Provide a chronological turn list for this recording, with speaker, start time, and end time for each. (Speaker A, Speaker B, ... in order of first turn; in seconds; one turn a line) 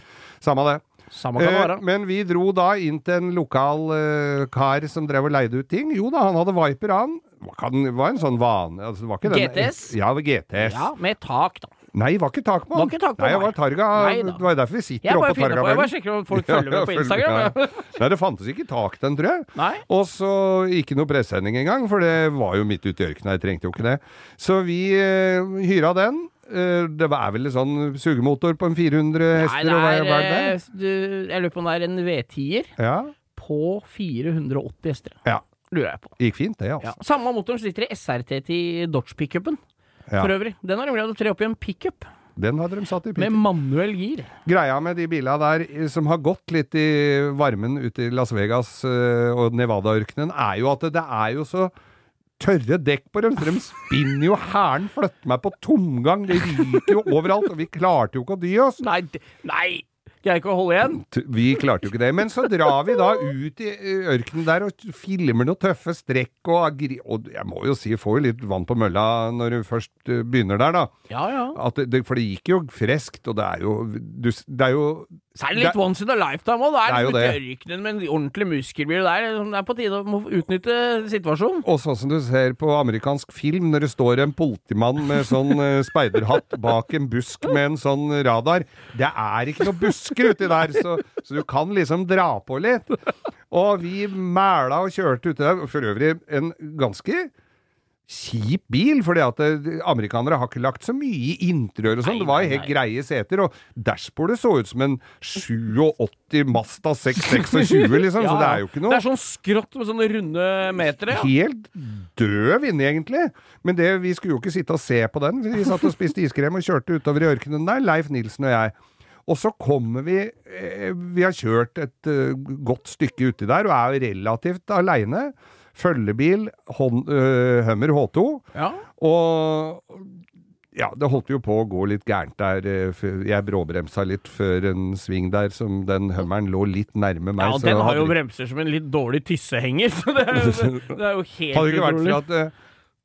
Speaker A: 0.4-10.9
Speaker B: 1.1-1.8
Speaker B: 9.2-10.0
Speaker B: 10.6-11.7
Speaker A: 11.9-30.6
Speaker B: 12.7-14.4
Speaker B: 15.0-18.0
Speaker B: 19.6-19.8
Speaker B: 29.3-32.7
Speaker A: 32.8-33.1
Speaker B: 33.3-36.1
Speaker A: 36.2-37.0
Speaker B: 36.8-39.6
Speaker A: 40.1-40.3
Speaker B: 40.2-42.1
Speaker A: 42.4-43.4
Speaker B: 43.2-44.3
Speaker A: 44.4-51.7
Speaker A: 52.4-58.8
Speaker B: 58.8-61.0
Speaker A: 61.0-70.9
Speaker B: 71.1-71.6
Speaker A: 71.5-75.8
Speaker B: 75.3-81.7
Speaker A: 76.8-77.4
Speaker A: 81.6-93.0
Speaker A: 93.5-97.3
Speaker A: 98.1-109.0
Speaker B: 102.0-102.8
Speaker B: 107.3-111.3
Speaker A: 111.0-118.7
Speaker A: 119.2-128.4
Speaker B: 128.5-128.8
Speaker A: 129.0-130.1
Speaker A: 130.7-138.2
Speaker B: 137.4-142.2
Speaker A: 140.3-140.9
Speaker A: 141.5-142.5